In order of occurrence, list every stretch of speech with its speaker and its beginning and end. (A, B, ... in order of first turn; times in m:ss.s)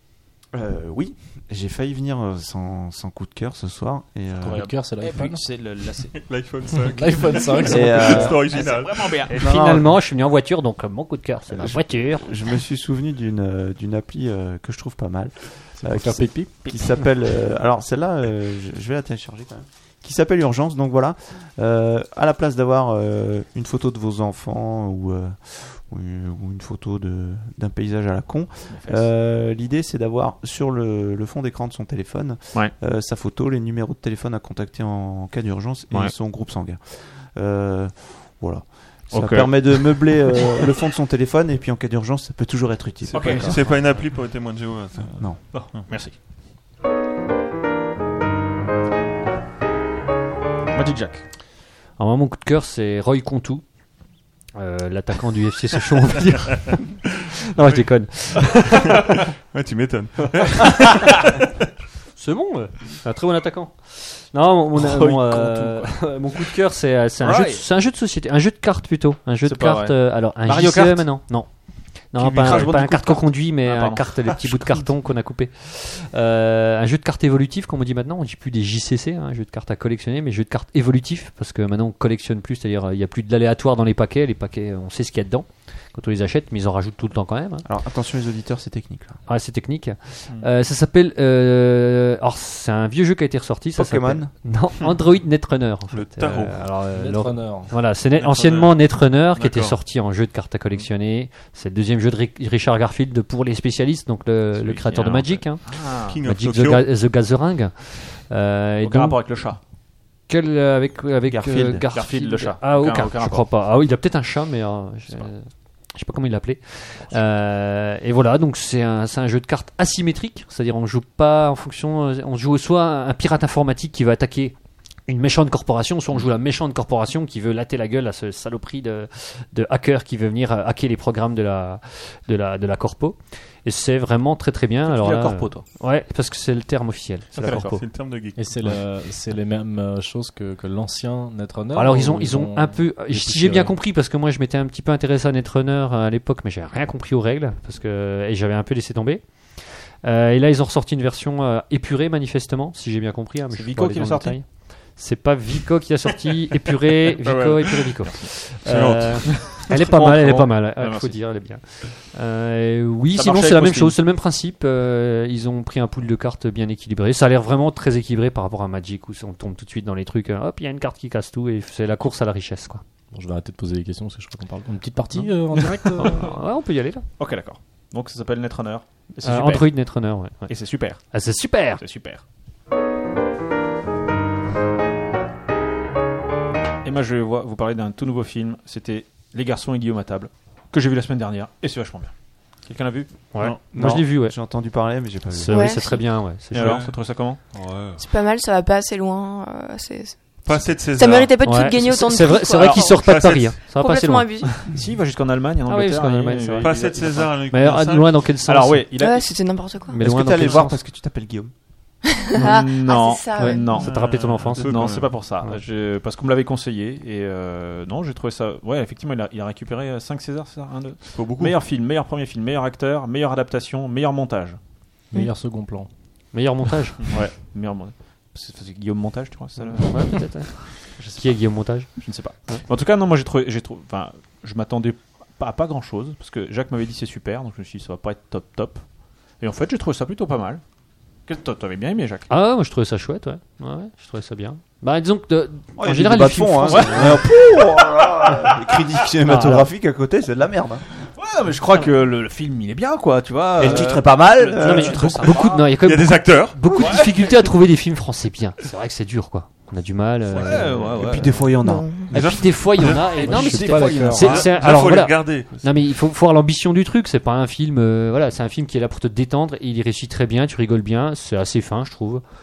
0:00.5-0:04.7 A
0:04.4-0:06.2 B
0:04.5-0:05.5 C
0:06.1-0:09.3 D
0:06.8-0:08.4 C
0:07.6-0:08.4 A
0:08.0-0:09.5 B
0:09.3-0:12.3 E
0:09.3-0:09.9 A
0:11.6-0:43.6 A
0:15.8-0:16.6 C
0:28.7-0:29.1 B
0:39.1-0:40.7 B
0:43.0-0:45.9 D
0:43.1-0:44.0 B
0:45.2-0:45.6 A
0:45.5-0:46.2 B
0:50.7-0:51.2 B
0:52.0-0:53.6 E
0:54.6-0:56.9 E
0:57.5-0:59.0 E
0:57.6-1:01.1 D
1:02.2-1:27.6 E
1:04.7-1:06.5 B
1:07.2-1:07.7 B
1:09.4-1:11.4 B
1:12.2-1:12.8 D
1:12.4-1:15.0 B
1:27.6-1:29.2 A
1:29.3-1:49.2 E
1:33.8-1:34.3 A
1:35.9-1:36.8 D
1:36.9-1:37.9 C
1:38.1-1:39.8 D
1:44.6-1:46.2 B
1:46.1-1:46.9 D
1:48.8-1:49.6 B
1:50.3-2:04.6 E
1:51.3-1:51.9 A
1:51.9-1:53.5 B
2:05.1-2:17.8 E
2:14.9-2:15.6 B
2:17.4-2:17.8 B
2:17.4-2:18.8 D
2:18.4-2:23.8 C
2:21.7-2:52.8 E
2:33.5-2:34.4 B
2:37.2-2:38.4 B
2:38.6-2:39.7 D
2:39.3-2:41.2 B
2:43.1-2:44.0 B
2:53.1-2:56.3 C
2:55.5-2:56.2 B
2:56.0-2:57.0 E
2:57.2-3:02.2 B
2:59.2-3:01.8 E
3:06.8-3:13.1 B
3:13.3-3:14.4 E
3:13.4-3:13.9 D
3:13.7-3:15.7 A
3:15.3-3:16.8 E
3:15.5-3:16.0 F
3:16.5-3:17.4 B
3:16.5-3:18.1 D
3:18.0-3:23.1 F
3:20.4-3:21.4 D
3:21.4-3:24.6 E
3:22.6-3:22.9 B
3:22.9-3:23.6 D
3:23.6-3:24.7 F
3:24.6-3:27.3 B
3:25.7-3:28.9 E
3:26.6-3:28.3 D
3:28.5-3:29.3 B
3:29.0-3:30.0 F
3:29.9-3:30.8 E
3:30.0-3:31.5 A
3:32.2-3:33.8 F
3:32.4-3:34.0 B
3:33.4-3:35.6 E
3:33.7-3:35.2 D
3:34.5-3:44.6 B
3:41.1-3:41.6 D
3:45.1-3:45.9 C
3:46.3-3:47.0 E
3:47.1-3:50.3 B
3:49.9-3:51.9 E
3:51.0-3:51.4 B
3:52.0-3:58.8 B
3:59.4-4:00.6 B
4:01.3-4:02.3 B
4:02.3-4:07.2 E
4:05.8-4:10.8 A
4:06.7-4:07.6 B
4:09.2-4:09.7 E
4:11.2-4:15.6 B
4:13.6-4:15.4 A
4:14.6-4:21.0 E
4:15.6-4:16.6 D
4:16.6-4:17.4 B
4:20.3-4:21.5 B
4:21.0-4:22.1 A
4:21.7-4:22.1 F
4:22.1-4:23.5 D
4:22.1-4:32.2 E
4:23.1-4:24.5 C
4:23.3-4:24.3 B
4:24.1-4:25.9 D